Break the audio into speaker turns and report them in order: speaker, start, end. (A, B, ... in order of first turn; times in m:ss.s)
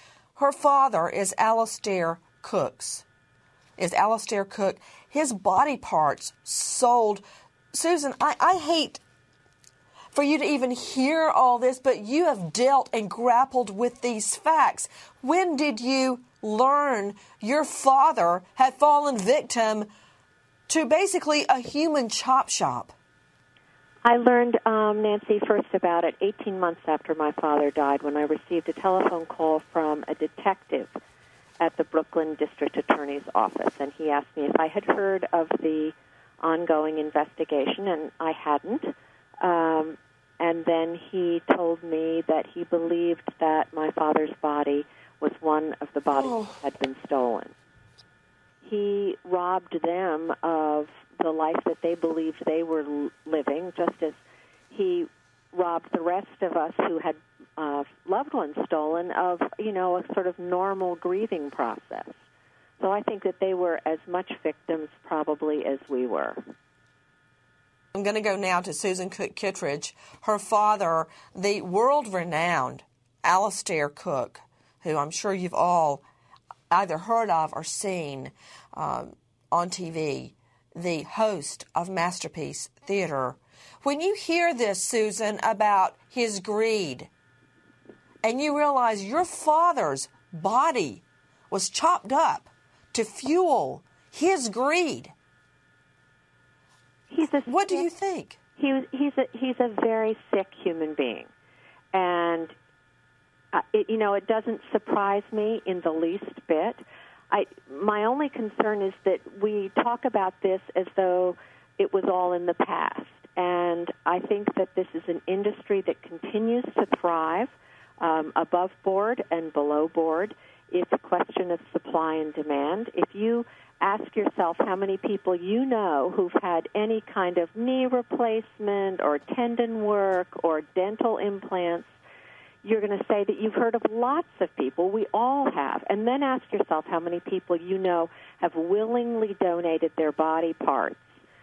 0:00.3-0:03.0 A
0:03.8-0:07.2 A
0:07.7-0:09.0 A
0:10.1-0:19.9 A
0:20.7-0:22.9 A
0:24.0-0:30.9 B
0:31.6-0:47.5 B
0:46.2-0:46.6 A
0:48.6-0:54.2 B
0:54.7-1:02.2 B
1:02.8-1:06.4 B
1:07.9-1:16.0 A
1:16.7-1:27.1 A
1:28.2-1:35.1 A
1:37.1-1:37.9 B
1:37.4-1:38.4 A
1:38.6-1:41.3 B
1:41.9-1:42.5 B
1:43.5-1:46.8 B
1:47.3-2:11.9 B
2:12.6-2:21.0 B